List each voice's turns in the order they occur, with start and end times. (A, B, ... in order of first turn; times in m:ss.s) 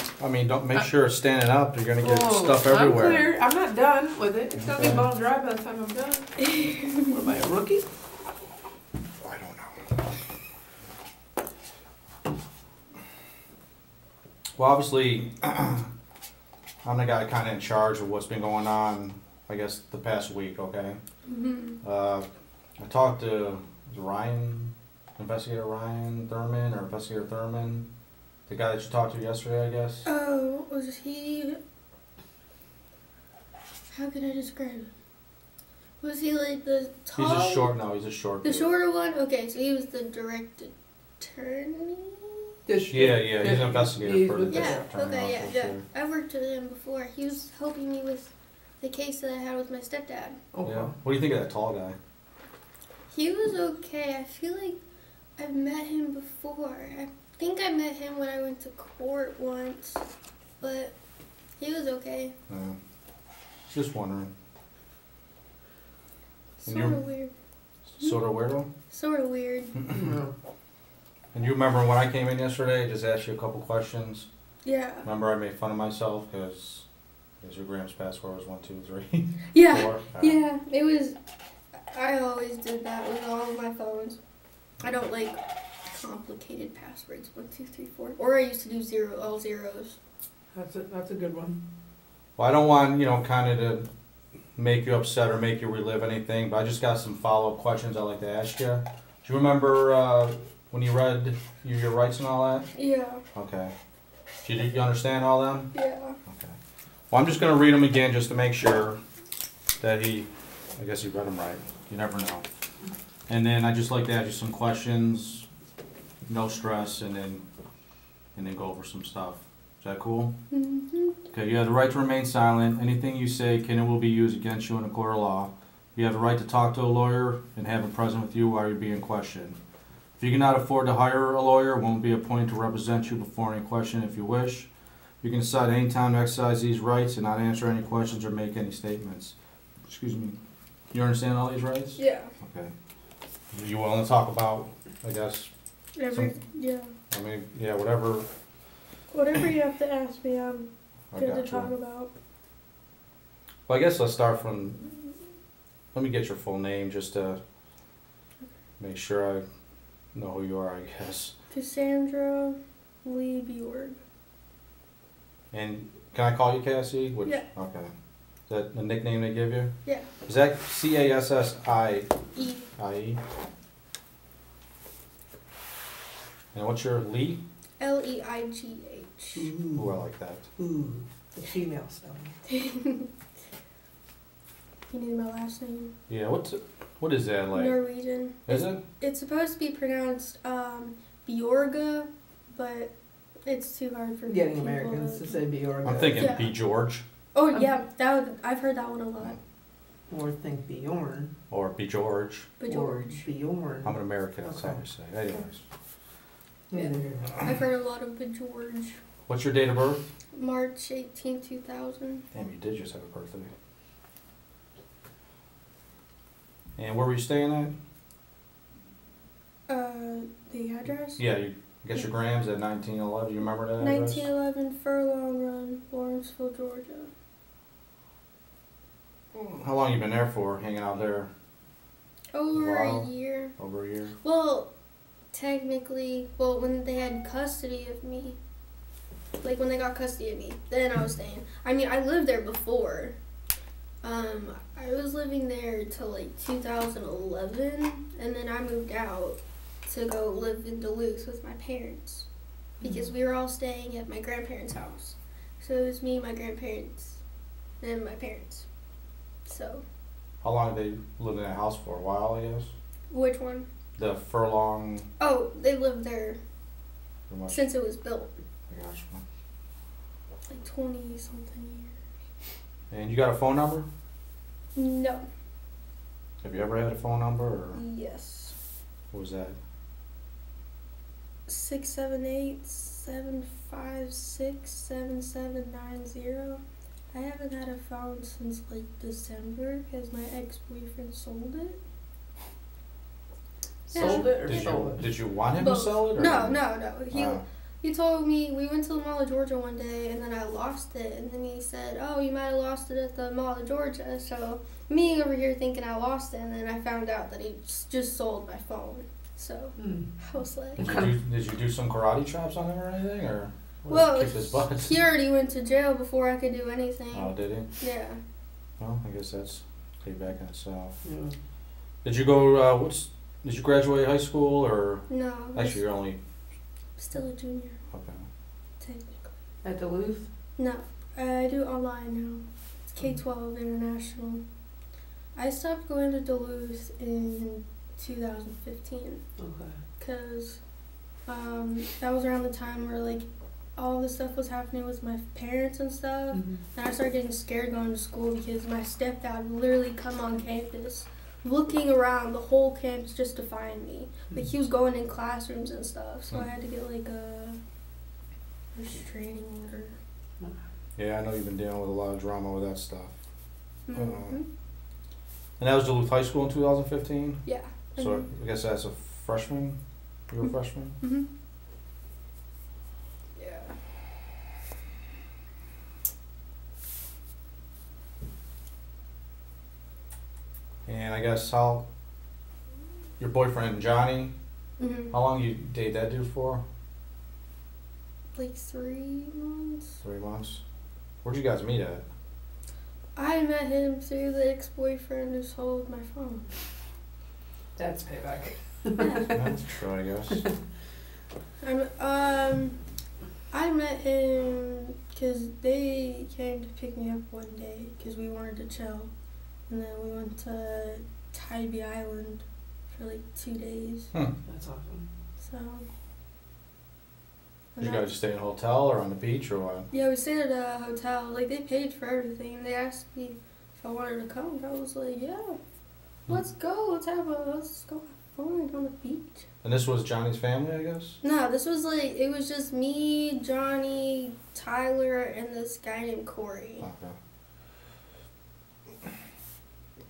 0:00.2-0:03.3 A
0:02.0-0:07.9 B
0:04.6-0:05.1 A
0:06.5-0:07.0 C
0:09.2-0:10.0 A
0:14.6-0:15.9 A
0:16.8-0:21.0 A
0:21.3-0:21.8 C
0:21.8-0:22.3 A
0:22.8-0:27.9 A
0:28.5-0:30.0 A
0:30.0-0:31.6 C
0:33.9-0:34.9 C
0:36.0-0:37.7 C
0:37.2-0:38.7 A
0:38.4-0:42.5 C
0:42.7-0:44.9 B
0:42.9-0:45.8 A
0:44.5-0:50.4 C
0:50.5-0:51.0 B
0:50.6-0:52.0 A
0:53.1-0:54.8 C
0:55.4-1:00.0 C
1:00.6-1:01.0 C
1:01.6-1:02.4 C
1:02.5-1:02.8 A
1:03.7-1:04.3 A
1:06.6-1:07.3 C
1:06.7-1:07.0 A
1:07.9-1:08.7 A
1:08.9-1:09.8 C
1:09.9-1:10.3 B
1:11.3-1:14.3 A
1:14.6-1:15.1 C
1:15.0-1:16.9 A
1:17.4-1:20.4 A
1:19.5-1:21.2 C
1:21.8-1:24.2 C
1:24.8-1:25.4 C
1:25.9-1:30.0 C
1:30.5-1:31.6 B
1:32.4-1:33.9 A
1:34.6-1:42.7 A
1:42.8-1:43.2 C
1:43.4-1:43.7 A
1:44.4-1:45.7 A
1:45.7-1:46.2 C
1:46.3-1:46.6 A
1:47.1-1:49.0 A
1:49.8-1:52.5 A
1:53.3-1:55.5 A
1:56.3-1:57.4 A
1:58.4-2:00.4 A
2:00.5-2:01.2 C
2:01.3-2:09.6 A
2:10.2-2:14.7 A
2:15.2-2:19.3 A
2:19.9-2:20.4 A
2:20.9-2:22.7 A
2:22.0-2:22.3 C
2:23.5-2:25.5 A
2:26.0-2:26.9 C
2:26.1-2:26.4 A
2:27.1-2:28.3 A
2:29.1-2:32.1 C
2:31.1-2:31.7 A
2:33.7-2:34.9 A
2:35.9-2:37.4 A
2:38.8-2:39.4 A
2:40.2-2:41.4 A
2:41.5-2:44.0 C
2:45.5-2:47.9 A
2:48.5-2:49.7 A
2:50.2-2:52.1 A
2:52.4-2:52.7 C
2:52.8-2:53.2 A
2:56.5-2:57.4 A
2:57.8-2:59.5 C
2:59.4-2:59.9 B
2:59.8-3:00.5 A
3:00.6-3:02.3 B
3:02.5-3:03.1 C
3:04.9-3:06.0 C
3:06.1-3:07.8 A
3:07.5-3:12.9 C
3:08.5-3:08.8 A
3:13.5-3:15.4 C
3:14.3-3:16.3 B
3:15.8-3:17.0 A
3:16.2-3:16.5 C
3:17.3-3:19.4 C
3:20.1-3:21.3 B
3:21.5-3:22.5 A
3:22.6-3:23.2 C
3:22.7-3:24.8 B
3:23.8-3:25.6 A
3:26.7-3:27.4 B
3:26.8-3:29.0 C
3:29.3-3:30.0 A
3:30.3-3:32.3 C
3:32.3-3:33.5 A
3:36.8-3:37.7 A
3:39.7-3:41.2 C
3:41.2-3:44.3 A
3:43.8-3:47.1 C
3:49.3-3:51.3 A
3:52.3-3:53.5 C
3:52.5-3:54.2 A
3:54.2-3:54.7 C
3:55.3-3:58.4 C
3:59.4-4:03.2 C
4:04.0-4:12.3 C
4:12.8-4:13.1 B
4:12.8-4:17.2 C
4:17.8-4:18.7 C
4:19.5-4:19.8 C
4:20.4-4:22.7 A
4:23.1-4:23.7 C
4:24.0-4:25.1 A
4:25.2-4:26.4 C
4:27.3-4:27.7 A
4:27.5-4:28.4 C
4:28.7-4:29.2 A
4:30.5-4:32.0 C
4:32.9-4:33.9 A
4:34.8-4:35.2 C
4:36.4-4:37.8 A
4:37.8-4:38.6 C
4:39.1-4:39.6 A
4:41.5-4:46.6 C
4:47.1-4:51.8 C
4:53.9-4:54.7 C
4:53.9-4:55.1 B
4:54.0-4:56.6 A
4:55.6-5:10.9 C
4:57.1-4:57.4 A
5:09.8-5:10.1 B
5:10.8-5:11.1 B
5:10.8-5:15.0 A
5:13.9-5:18.2 C
5:17.1-5:17.7 A
5:18.8-5:20.9 A
5:21.0-5:21.4 B
5:22.0-5:26.2 A
5:25.1-5:25.8 C
5:27.0-5:27.8 C
5:27.9-5:28.2 A
5:28.8-5:29.3 C
5:29.6-5:30.3 B
5:30.6-5:34.4 C
5:35.4-5:39.2 C
5:39.4-5:39.8 B
5:40.0-5:40.6 C
5:41.3-5:57.6 C
5:46.3-5:46.6 B
5:58.8-6:00.0 C
6:01.0-6:03.1 A
6:03.9-6:04.4 C
6:03.9-6:04.4 A
6:05.6-6:07.4 A
6:07.5-6:08.2 C
6:08.0-6:11.0 A
6:11.0-6:11.3 C
6:13.4-6:13.8 C
6:20.9-6:21.9 A
6:23.2-6:24.4 A
6:24.8-6:25.1 C
6:25.1-6:26.6 A
6:28.4-6:30.0 C
6:30.0-6:30.6 A
6:31.2-6:32.0 A
6:33.2-6:36.5 C
6:37.8-6:39.4 B
6:39.4-6:40.4 A
6:41.6-6:42.8 C
6:43.5-6:49.1 C
6:49.7-6:54.1 C
6:54.5-6:55.1 B
6:55.4-6:55.9 C
6:57.8-6:58.0 C
6:57.8-6:59.9 A
6:59.9-7:05.6 C
7:06.3-7:09.4 C
7:09.6-7:11.2 A
7:11.2-7:16.9 C
7:16.8-7:17.2 A